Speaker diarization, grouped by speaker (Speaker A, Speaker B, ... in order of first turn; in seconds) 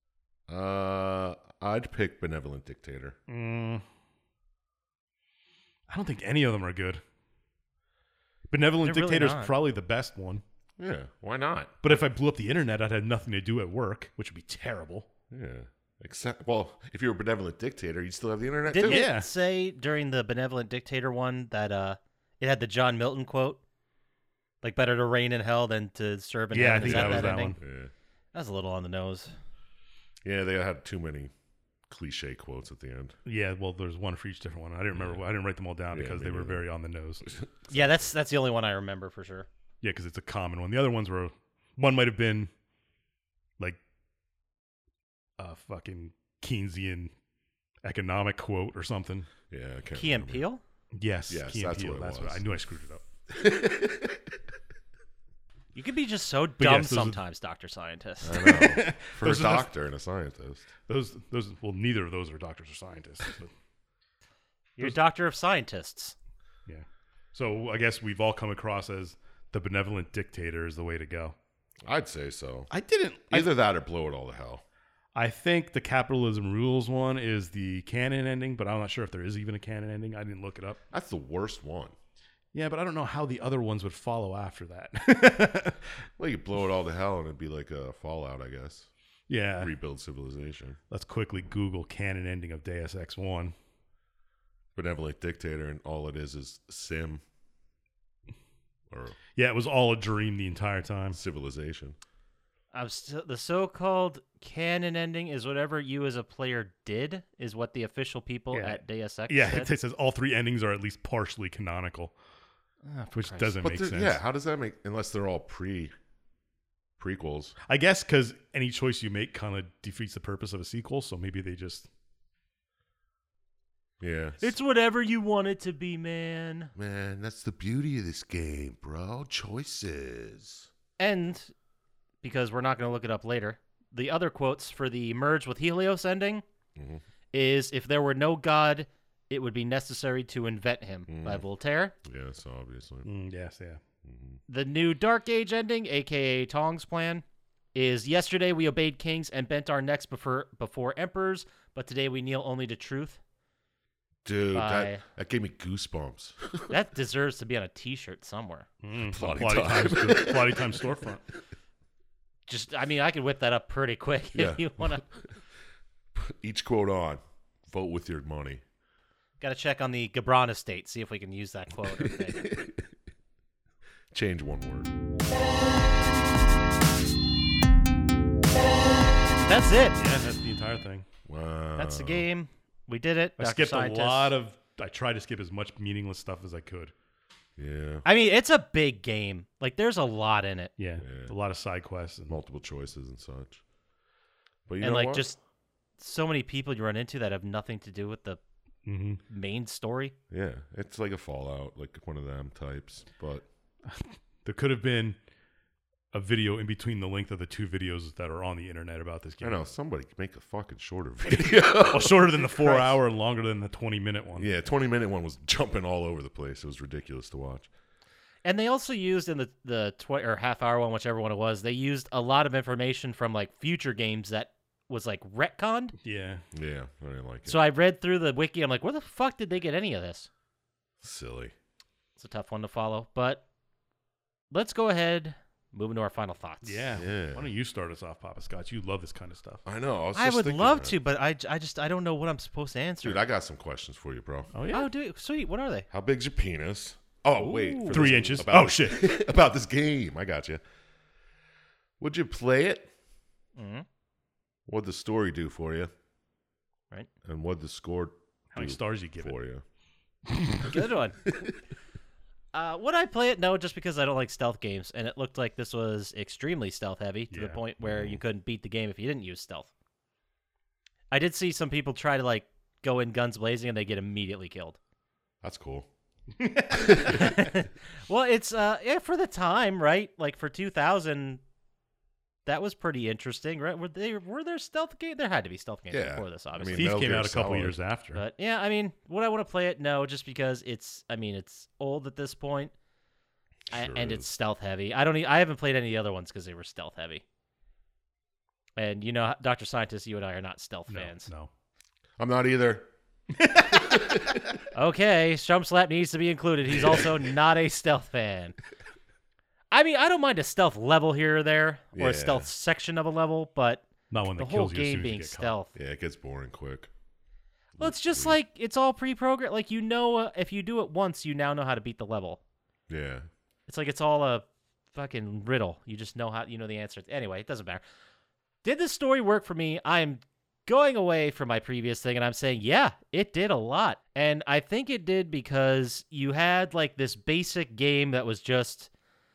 Speaker A: 0.5-3.2, 10.8-12.0, 15.3-19.1, 26.8-27.9, 30.2-31.3, 31.9-33.1, 34.9-35.2, 35.9-36.6, 37.2-38.0, 49.5-50.4, 51.3-52.6, 53.3-54.4, 58.2-60.7, 71.8-72.7, 73.3-74.6, 80.9-81.9, 86.2-88.9, 89.6-90.8, 94.7-97.2, 98.9-99.2, 101.1-102.0, 113.6-115.9, 117.0-117.5, 124.0-124.4, 126.7-130.7, 136.8-137.0, 141.1-141.4, 142.0-143.1, 144.0-144.4, 154.2-156.7, 159.1-160.8, 164.3-165.3, 166.1-168.6, 172.0-172.9, 174.1-174.9, 181.2-182.3, 187.6-188.1, 191.0-191.3, 192.3-193.6, 194.7-195.3, 200.3-203.4, 209.4-212.4, 214.4-217.7, 226.5-227.6, 231.0-231.5, 237.0-237.5, 239.6-240.9, 243.0-244.5, 245.9-250.6, 252.0-252.9, 254.7-255.9, 257.2-259.6, 261.2-261.6, 267.8-268.2, 275.4-275.9, 276.7-277.4, 285.9-287.8, 293.7-294.3, 302.2-302.9, 303.7-304.6, 306.7-307.2, 311.9-312.5, 315.7-316.9, 317.8-318.4, 322.9-323.3
Speaker B: 3.3-3.8, 5.9-7.0, 8.5-10.4, 11.8-15.1, 18.8-19.3, 26.5-27.6, 33.2-37.2, 39.8-42.5, 45.4-47.1, 47.8-49.3, 50.9-53.0, 56.6-57.2, 58.3-59.7, 60.9-63.5, 66.7-71.3, 72.7-73.5, 75.1-80.8, 82.5-85.9, 89.3-89.7, 90.9-93.5, 99.3-101.2, 108.5-112.1, 113.1-114.2, 117.7-121.9, 143.0-143.8, 158.8-161.2, 179.9-181.0, 183.4-186.9, 190.8-192.4, 198.8-199.2, 203.9-205.2, 206.1-209.7, 211.7-214.5, 226.0-226.4, 236.6-239.6, 244.5-244.9, 247.9-249.1, 258.5-259.3, 260.3-260.7, 267.3-267.6, 276.4-277.2, 286.7-288.2, 300.9-301.5, 303.4-303.9, 314.1-315.6
Speaker C: 8.8-9.5, 18.7-23.6, 24.6-27.6, 28.3-29.3, 37.7-39.5, 50.0-50.6, 55.7-58.5, 64.8-66.2, 102.7-109.7, 112.8-113.5, 124.4-126.7, 131.0-131.5, 132.2-136.4, 137.3-141.9, 144.5-147.2, 147.7-153.2, 154.5-155.0, 156.7-158.7, 162.5-165.0, 169.4-172.4, 179.4-180.0, 181.8-184.3, 188.0-190.7, 194.8-195.4, 196.0-198.4, 199.3-200.1, 212.6-212.9, 218.4-225.9, 227.4-230.3, 232.2-233.4, 234.5-236.9, 240.1-243.2, 244.7-245.9, 247.4-248.2, 253.6-253.8, 260.6-261.2, 262.5-269.7, 271.1-274.8, 277.0-281.4, 282.4-286.9, 288.1-292.7, 293.7-297.2, 298.8-301.3, 304.7-308.6, 309.7-315.7, 317.8-322.4, 323.7-327.8, 328.6-338.9